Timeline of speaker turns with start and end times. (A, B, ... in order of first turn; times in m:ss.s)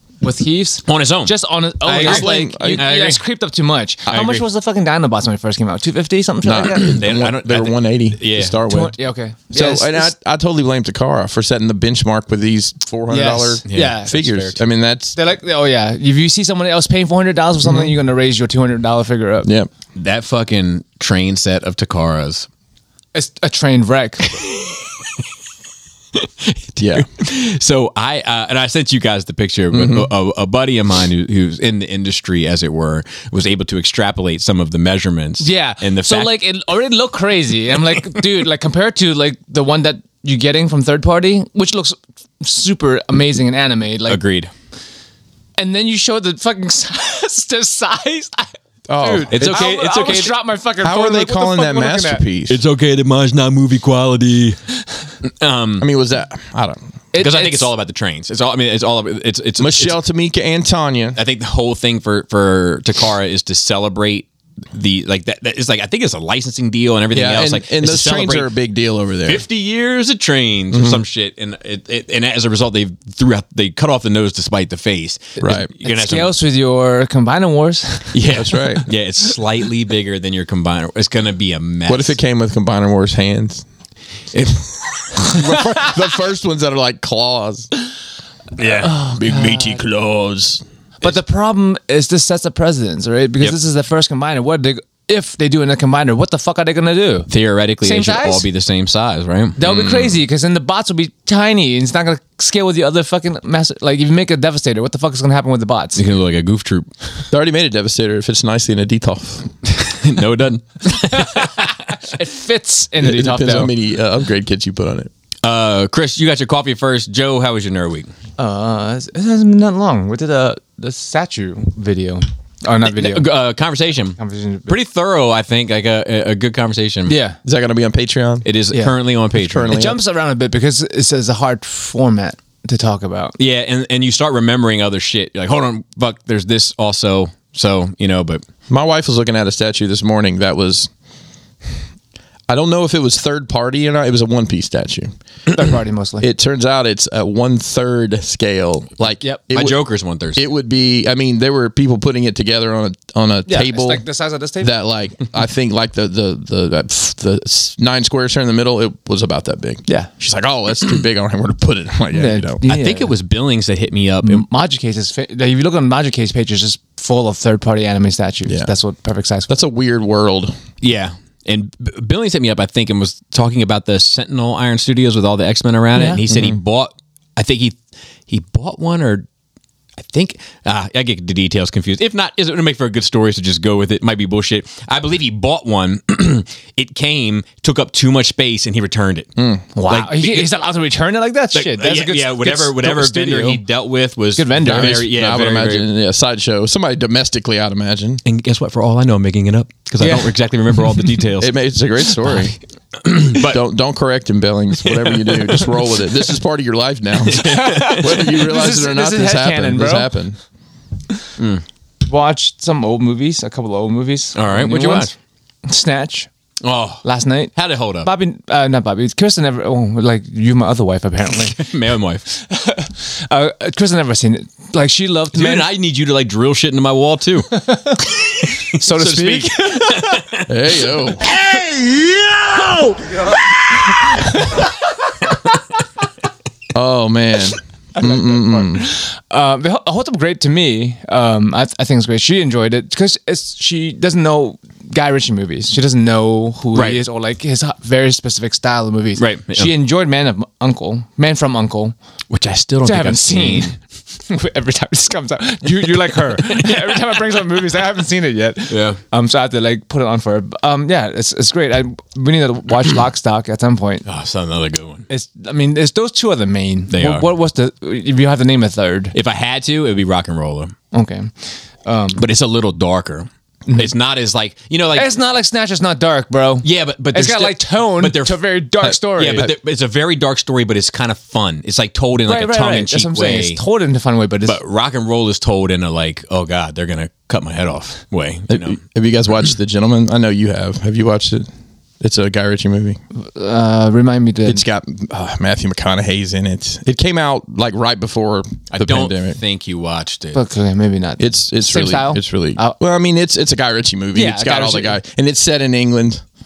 0:00.2-0:07.0 A
0:00.9-0:03.2 B
0:02.0-0:02.8 C
0:04.1-0:04.4 B
0:06.4-0:09.0 C
0:06.7-0:08.6 B
0:08.6-0:10.1 A
0:09.5-0:15.2 C
0:13.1-0:14.3 A
0:13.7-0:14.6 B
0:15.2-0:19.5 A
0:19.4-0:19.7 C
0:20.0-0:22.5 B
0:23.1-0:24.4 A
0:24.4-0:24.8 B
0:26.2-0:36.3 B
0:26.8-0:27.1 C
0:29.7-0:30.1 C
0:35.4-0:44.2 A
0:44.1-0:44.5 B
0:45.6-0:52.2 A
0:48.9-0:49.6 C
0:49.3-0:50.4 B
0:50.8-0:52.6 C
0:52.5-0:54.7 B
0:55.2-0:55.9 B
0:55.8-0:56.9 C
0:57.1-0:57.7 A
0:57.2-1:00.0 B
0:59.6-1:01.2 C
1:01.2-1:08.5 B
1:07.1-1:09.4 C
1:09.2-1:16.3 B
1:10.7-1:11.0 C
1:15.4-1:15.7 C
1:15.8-1:18.1 A
1:18.1-1:22.2 B
1:18.3-1:18.9 C
1:21.9-1:23.6 C
1:24.3-1:25.2 B
1:25.2-1:27.7 C
1:28.6-1:28.9 B
1:28.6-1:30.6 C
1:28.8-1:29.8 A
1:31.0-1:37.3 A
1:37.3-1:40.2 B
1:37.8-1:38.5 A
1:39.6-1:46.0 A
1:46.0-1:46.9 B
1:47.3-1:49.6 C
1:49.8-1:51.7 B
1:51.0-1:53.7 A
1:53.0-1:55.1 C
1:55.4-1:58.1 B
1:58.4-2:03.3 A
2:02.8-2:07.2 B
2:04.2-2:04.8 A
2:07.1-2:07.4 A
2:07.4-2:08.5 C
2:08.4-2:09.8 B
2:09.4-2:10.0 C
2:09.7-2:13.4 A
2:13.4-2:18.4 B
2:18.7-2:20.9 C
2:22.5-2:25.1 C
2:25.5-2:26.3 A
2:26.2-2:29.8 C
2:29.5-2:30.4 B
2:30.4-2:34.0 C
2:33.5-2:34.7 A
2:34.6-2:42.6 C
2:42.1-2:43.1 A
2:42.7-2:44.5 B
2:44.2-2:49.5 A
2:48.5-2:48.7 C
2:49.5-2:50.6 C
2:50.8-2:57.8 B
2:55.9-2:56.2 A
2:56.3-2:56.6 C
2:58.3-2:59.3 B
3:00.0-3:09.3 B
3:09.4-3:09.7 C
3:09.8-3:13.6 A
3:09.9-3:10.6 B
3:11.5-3:15.9 B
3:14.4-3:15.0 A
3:14.6-3:18.2 C
3:18.2-3:21.5 B
3:20.0-3:21.0 A
3:21.4-3:22.6 C
3:22.1-3:23.6 B
3:23.3-3:30.4 C
3:24.8-3:25.7 B
3:27.3-3:28.2 B
3:27.3-3:30.1 A
3:31.4-3:31.6 B
3:32.1-3:35.1 A
3:34.4-3:35.1 B
3:35.6-3:36.3 A
3:36.6-3:38.1 B
3:37.0-3:41.6 A
3:41.4-3:42.2 B
3:42.3-3:45.7 A
3:45.3-3:50.5 B
3:47.6-3:48.0 A
3:48.7-3:50.2 A
3:50.5-3:51.3 C
3:51.1-3:54.6 B
3:54.1-3:54.6 A
3:56.7-3:58.9 C
3:58.0-4:12.0 A
4:06.8-4:07.0 B
4:09.2-4:09.7 B
4:12.3-4:13.7 B
4:12.8-4:13.8 A
4:14.3-4:24.0 A
4:16.4-4:17.0 B
4:18.7-4:19.0 B
4:24.1-4:25.1 B
4:25.1-4:29.1 A
4:26.9-4:27.3 B
4:29.1-4:30.8 B
4:30.9-4:31.3 A
4:31.8-4:32.2 A
4:32.2-4:35.1 B
4:35.0-4:39.5 A
4:36.6-4:43.6 B
4:42.3-4:44.6 A
4:44.4-4:48.8 B
4:48.5-4:51.5 C
4:52.0-4:53.0 C
4:53.1-4:54.6 A
4:54.5-4:59.4 C
4:58.7-5:00.4 B
5:00.4-5:02.8 A
5:01.2-5:06.2 C
5:04.1-5:05.0 A